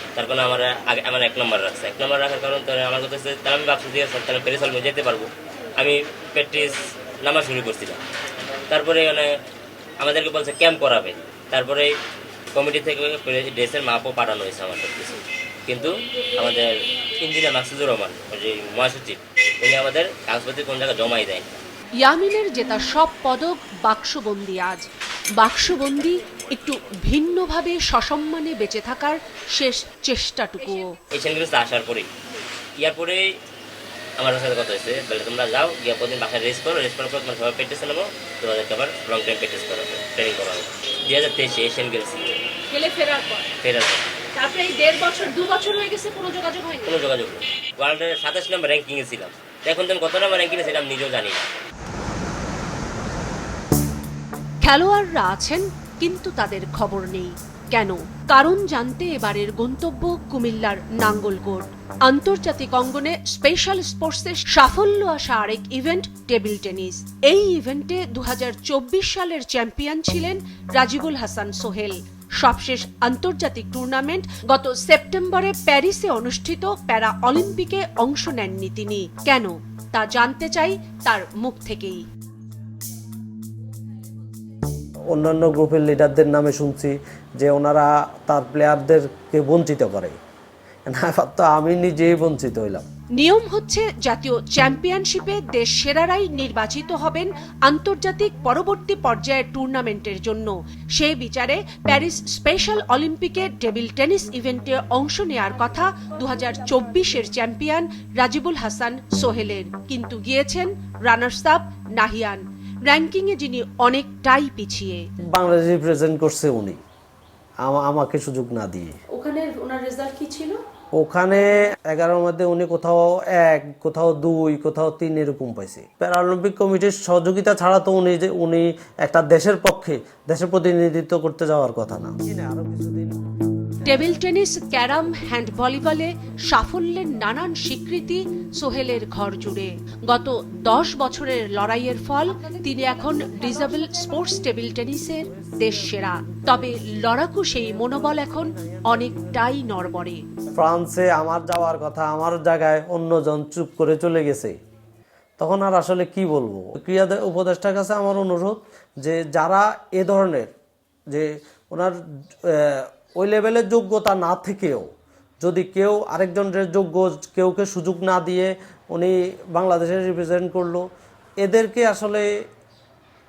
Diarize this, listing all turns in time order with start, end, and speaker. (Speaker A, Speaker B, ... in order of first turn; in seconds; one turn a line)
Speaker A: 0.2-8.0
Speaker A: 8.7-9.3
Speaker A: 10.0-11.9
Speaker A: 12.5-21.6
Speaker B: 22.0-24.9
Speaker B: 25.4-31.0
Speaker A: 31.1-32.1
Speaker A: 32.8-33.2
Speaker A: 34.2-42.4
Speaker B: 42.7-43.5
Speaker A: 43.6-44.1
Speaker B: 44.4-47.0
Speaker A: 46.9-51.4
Speaker B: 54.6-82.0
Speaker C: 85.1-90.2
Speaker C: 90.9-92.9
Speaker B: 93.2-115.0
Speaker C: 115.3-116.8
Speaker C: 117.6-119.0
Speaker B: 119.1-120.6
Speaker C: 121.0-133.2
Speaker B: 133.8-150.2
Speaker C: 148.1-148.9
Speaker C: 150.6-154.6
Speaker C: 155.4-160.5
Speaker C: 161.1-164.9
Speaker C: 165.4-170.9
Speaker C: 171.4-172.3